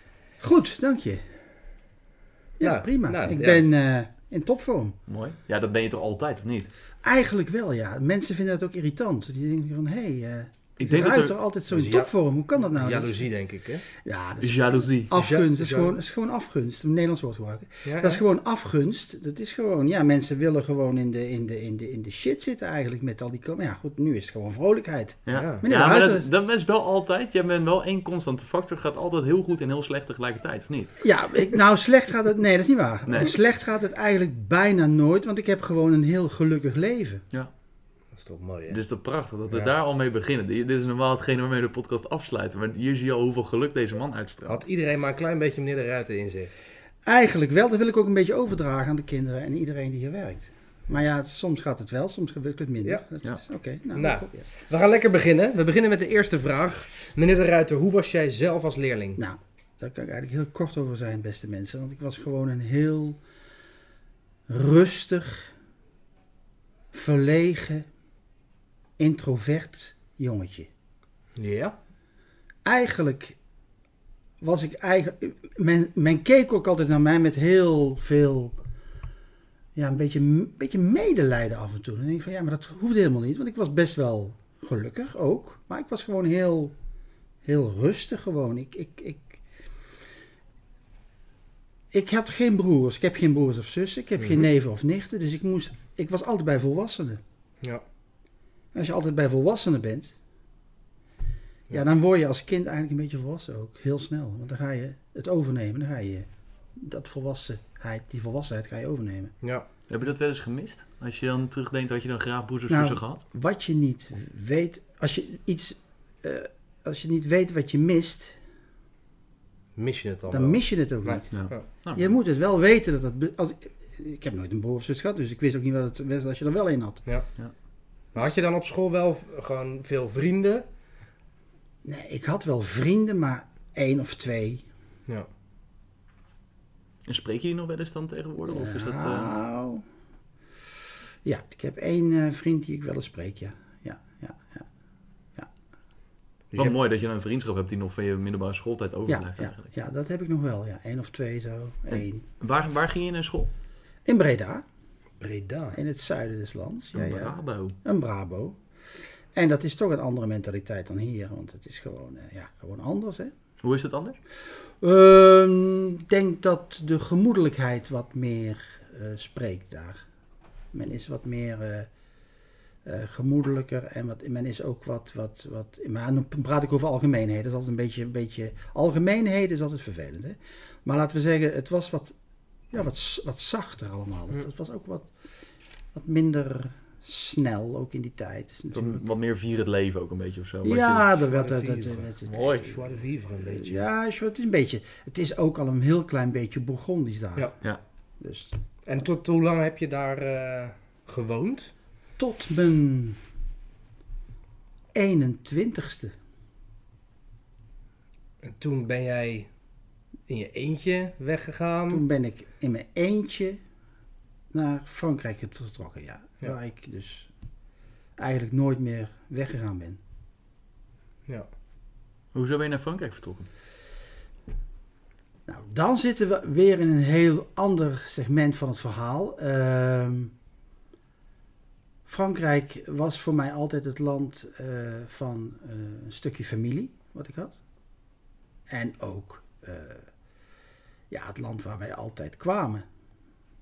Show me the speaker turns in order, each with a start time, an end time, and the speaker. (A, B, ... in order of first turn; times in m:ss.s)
0:00.4-0:01.3 A
0:02.6-0:05.0 A
0:02.6-0:03.6 B
0:05.1-0:06.7 C
0:07.0-0:13.3 A
0:10.8-0:11.4 C
0:11.7-0:13.8 B
0:13.9-0:26.3 A
0:14.4-0:15.1 C
0:15.1-0:15.9 B
0:17.8-0:18.2 B
0:25.2-0:31.0 C
0:25.3-0:25.6 B
0:31.0-0:37.2 A
0:33.1-0:33.4 C
0:38.1-0:38.8 B
0:38.7-0:44.6 C
0:44.5-0:46.5 B
0:47.0-0:54.5 A
0:53.9-0:59.2 B
0:59.2-1:03.2 A
1:04.5-1:05.5 A
1:06.9-1:07.9 A
1:09.0-1:10.7 A
1:11.4-1:11.7 B
1:12.6-1:13.4 A
1:14.4-1:18.6 A
1:19.8-1:26.7 A
1:27.4-1:29.4 A
1:31.9-1:37.2 A
1:34.2-1:34.4 B
1:38.7-1:40.1 A
1:41.7-1:49.3 A
1:49.9-1:53.2 C
1:52.7-1:58.4 A
1:59.8-2:01.6 B
2:00.3-2:01.2 A
2:01.3-2:02.1 C
2:01.9-2:07.0 A
2:08.1-2:10.6 B
2:11.8-2:14.6 A
2:17.1-2:19.3 C
2:18.5-2:19.8 A
2:21.2-2:24.7 A
2:26.5-2:29.7 C
2:29.1-2:32.2 A
2:31.9-2:33.5 C
2:34.0-2:34.6 A
2:35.2-2:35.8 B
2:35.7-2:38.6 A
2:36.9-2:37.7 C
2:39.3-2:43.3 A
2:43.6-2:44.2 C
2:44.8-2:50.0 A
2:50.7-2:51.9 A
2:52.8-3:02.2 A
3:02.7-3:05.1 A
3:05.9-3:09.0 A
3:08.7-3:11.1 C
3:10.6-3:12.4 A
3:11.2-3:13.8 B
3:12.3-3:12.8 C
3:13.4-3:17.5 A
3:18.2-3:18.5 A
3:18.8-3:21.7 B
3:22.2-3:23.2 A
3:24.9-3:26.1 A
3:28.4-3:29.5 B
3:30.3-3:32.0 B
3:31.9-3:33.6 A
3:34.5-3:37.3 A
3:38.2-3:40.0 A
3:42.3-3:43.5 C
3:45.4-3:50.3 A
3:52.1-3:57.6 A
3:58.7-4:00.1 A
4:01.1-4:02.8 A